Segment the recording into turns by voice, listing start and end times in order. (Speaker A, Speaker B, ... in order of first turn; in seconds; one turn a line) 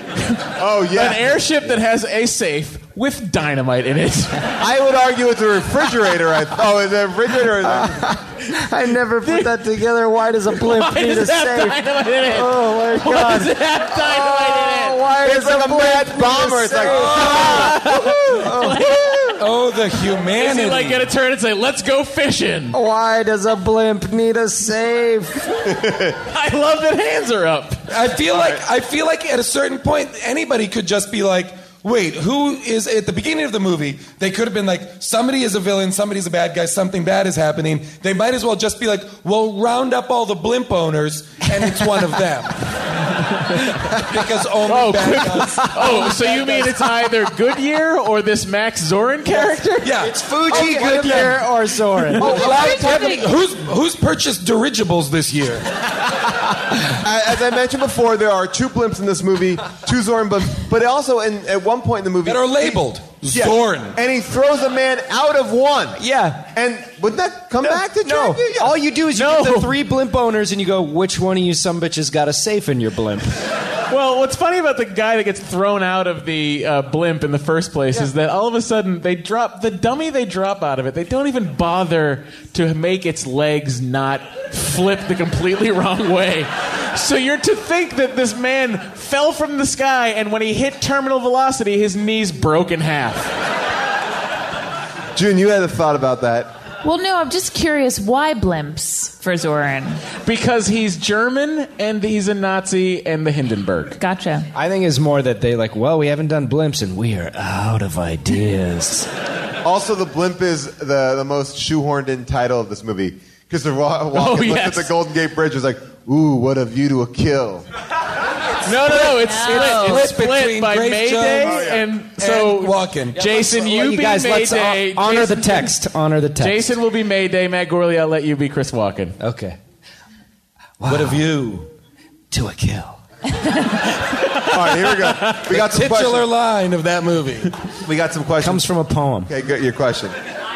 Speaker A: 0.6-1.4
Speaker B: 0.9-4.5
Speaker A: 4.6-8.1
Speaker C: 7.6-19.3
Speaker B: 9.2-9.6
Speaker B: 10.5-15.0
Speaker A: 15.2-17.9
Speaker B: 16.8-19.1
Speaker D: 19.4-21.1
Speaker B: 20.4-22.8
Speaker C: 22.7-25.5
Speaker A: 25.7-26.2
Speaker B: 26.3-27.8
Speaker D: 27.9-42.5
Speaker A: 28.3-28.6
Speaker D: 43.9-46.2
Speaker B: 44.7-49.9
Speaker D: 49.8-51.3
Speaker C: 50.0-52.6
Speaker A: 50.5-51.3
Speaker B: 50.5-51.3
Speaker D: 52.2-55.7
Speaker E: 52.2-53.4
Speaker A: 52.2-52.9
Speaker A: 57.0-66.0
Speaker D: 62.2-64.0
Speaker C: 66.0-66.5
Speaker A: 66.5-68.8
Speaker C: 67.7-73.3
Speaker B: 69.1-69.7
Speaker B: 73.9-93.3
Speaker A: 95.2-96.5
Speaker E: 96.8-100.0
Speaker B: 100.2-104.0
Speaker E: 104.0-104.5
Speaker C: 104.5-109.1
Speaker A: 109.6-117.7
Speaker B: 114.1-114.9
Speaker B: 118.7-125.7
Speaker E: 119.0-120.1
Speaker D: 119.5-123.2
Speaker A: 121.4-121.8
Speaker C: 123.2-126.7
Speaker B: 126.4-129.2
Speaker C: 129.2-129.6
Speaker C: 130.8-131.4
Speaker D: 130.9-131.7
Speaker C: 132.3-133.0
Speaker A: 134.5-136.3
Speaker D: 135.5-137.5
Speaker A: 137.8-138.7
Speaker C: 138.4-139.3
Speaker A: 139.3-140.2